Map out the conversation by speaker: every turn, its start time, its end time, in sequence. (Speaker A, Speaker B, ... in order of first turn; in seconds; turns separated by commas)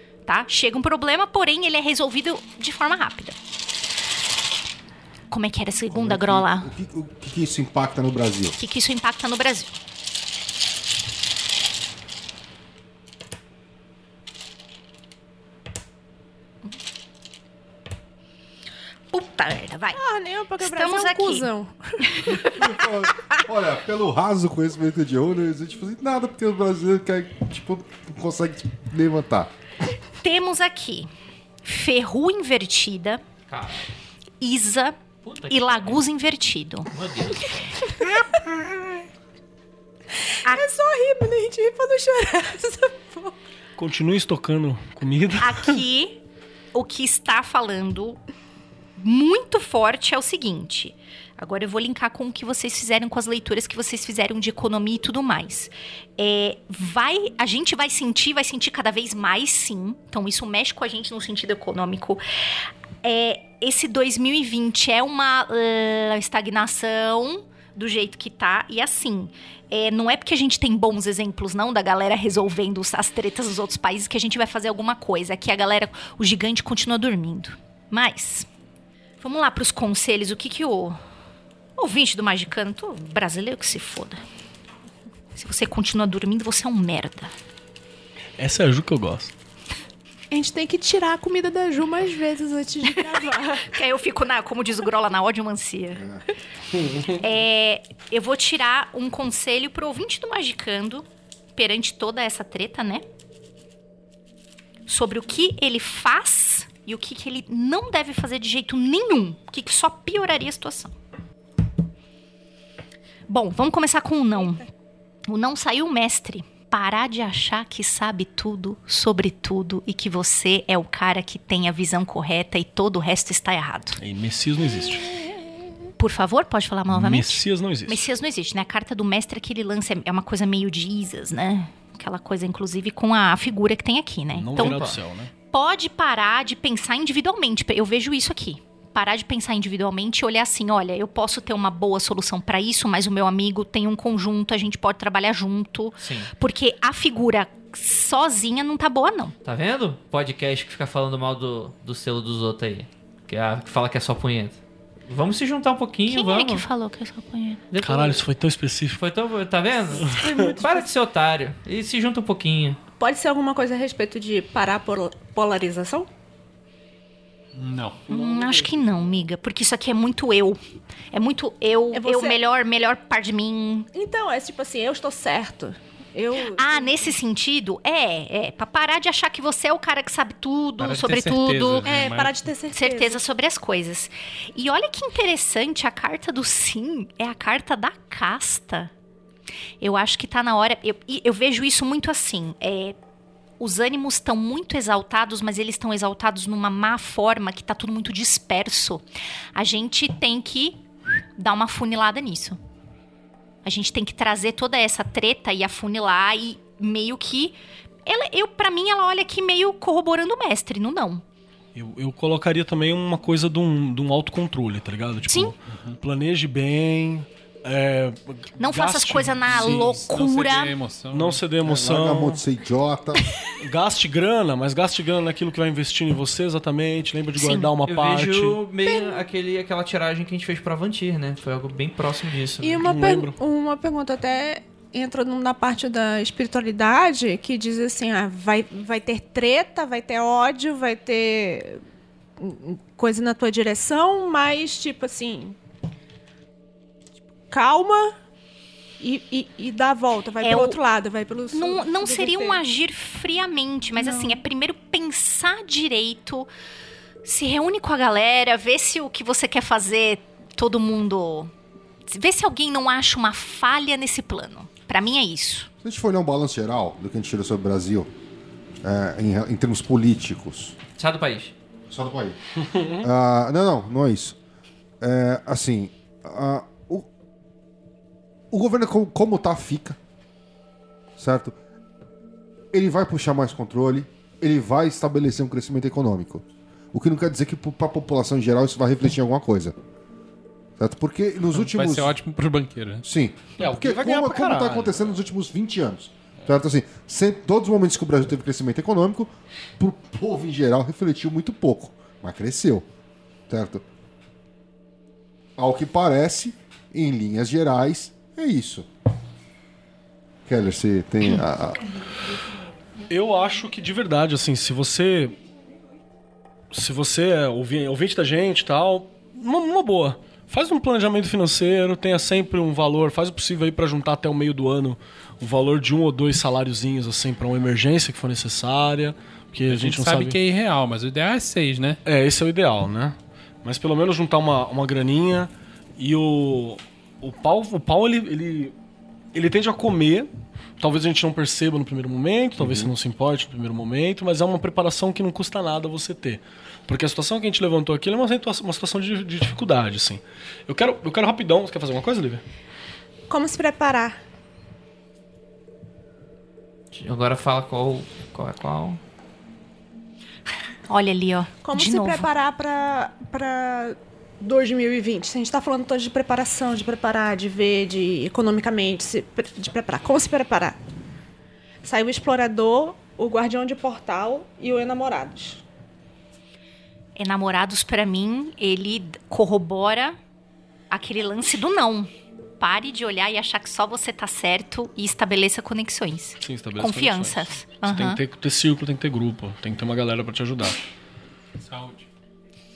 Speaker A: 0.2-3.4, Speaker A: 5.3-6.7, Speaker B: 5.9-8.6, Speaker A: 8.6-9.7, Speaker A: 19.1-20.0, Speaker C: 19.9-22.2, Speaker A: 20.6-21.5, Speaker A: 22.1-22.8, Speaker B: 22.4-29.5, Speaker A: 30.2-31.1, Speaker A: 31.6-33.2, Speaker D: 33.5-33.9, Speaker A: 34.4-35.0, Speaker D: 35.2-36.0, Speaker A: 35.5-36.9, Speaker D: 36.9-37.8, Speaker C: 40.4-43.4, Speaker E: 43.8-45.8, Speaker A: 45.4-46.2, Speaker A: 46.7-48.2, Speaker A: 49.0-62.2, Speaker A: 63.0-78.5, Speaker A: 79.2-81.0, Speaker A: 81.8-84.2, Speaker A: 85.3-87.3, Speaker E: 88.4-89.3, Speaker C: 90.3-93.7, Speaker A: 93.7-96.1, Speaker B: 96.0-96.2, Speaker A: 97.1-103.0, Speaker A: 104.8-110.9, Speaker A: 113.3-114.6, Speaker A: 115.3-124.0, Speaker E: 124.0-125.1, Speaker A: 126.0-149.3, Speaker E: 126.9-128.1, Speaker E: 134.3-135.3, Speaker D: 134.6-134.9, Speaker D: 146.0-146.3, Speaker D: 149.4-156.7, Speaker A: 156.1-157.7, Speaker D: 157.7-158.2, Speaker E: 157.8-159.0, Speaker D: 159.0-162.8, Speaker E: 160.0-160.5, Speaker C: 160.3-160.6, Speaker C: 163.0-166.1, Speaker F: 167.5-168.1, Speaker A: 168.1-170.6, Speaker E: 168.1-168.8, Speaker A: 171.1-173.9, Speaker C: 171.9-172.4, Speaker C: 173.9-177.1, Speaker A: 176.5-182.0, Speaker F: 180.8-182.3, Speaker C: 181.8-183.2, Speaker A: 182.7-188.9, Speaker A: 189.8-193.0, Speaker A: 193.6-200.8, Speaker A: 201.3-202.6, Speaker A: 203.6-211.2, Speaker E: 211.7-220.0, Speaker A: 215.2-215.5, Speaker F: 215.7-216.0, Speaker A: 218.6-220.7, Speaker F: 219.4-221.4, Speaker E: 221.1-222.4, Speaker B: 221.6-223.3, Speaker E: 223.6-228.6, Speaker A: 227.3-227.7, Speaker D: 227.8-232.8, Speaker C: 228.8-229.2, Speaker C: 232.6-241.8, Speaker E: 232.8-233.4, Speaker C: 242.4-245.6, Speaker C: 247.5-248.2, Speaker C: 249.0-252.6, Speaker A: 250.4-250.8, Speaker A: 251.5-256.5, Speaker C: 254.0-254.4, Speaker A: 257.2-261.5, Speaker A: 262.1-265.7, Speaker B: 265.8-268.1, Speaker B: 268.8-270.8, Speaker D: 271.0-271.5, Speaker B: 271.9-272.4, Speaker E: 272.7-273.0, Speaker B: 273.0-274.4, Speaker B: 275.0-277.1, Speaker B: 278.5-280.0, Speaker B: 281.2-281.5, Speaker B: 282.7-289.7, Speaker B: 290.8-292.1, Speaker F: 291.5-293.1, Speaker B: 293.0-302.9, Speaker E: 293.6-295.0, Speaker B: 303.5-303.8, Speaker B: 305.6-308.9, Speaker B: 310.4-311.9, Speaker E: 313.1-315.4, Speaker E: 316.7-330.4, Speaker F: 329.7-332.0, Speaker E: 332.0-338.7, Speaker E: 339.3-352.4, Speaker C: 353.3-354.2, Speaker D: 356.9-359.0, Speaker A: 360.9-362.3, Speaker C: 361.6-370.8, Speaker C: 371.8-375.6, Speaker A: 377.1-380.2, Speaker A: 380.9-388.2, Speaker E: 386.4-390.8, Speaker F: 391.6-392.1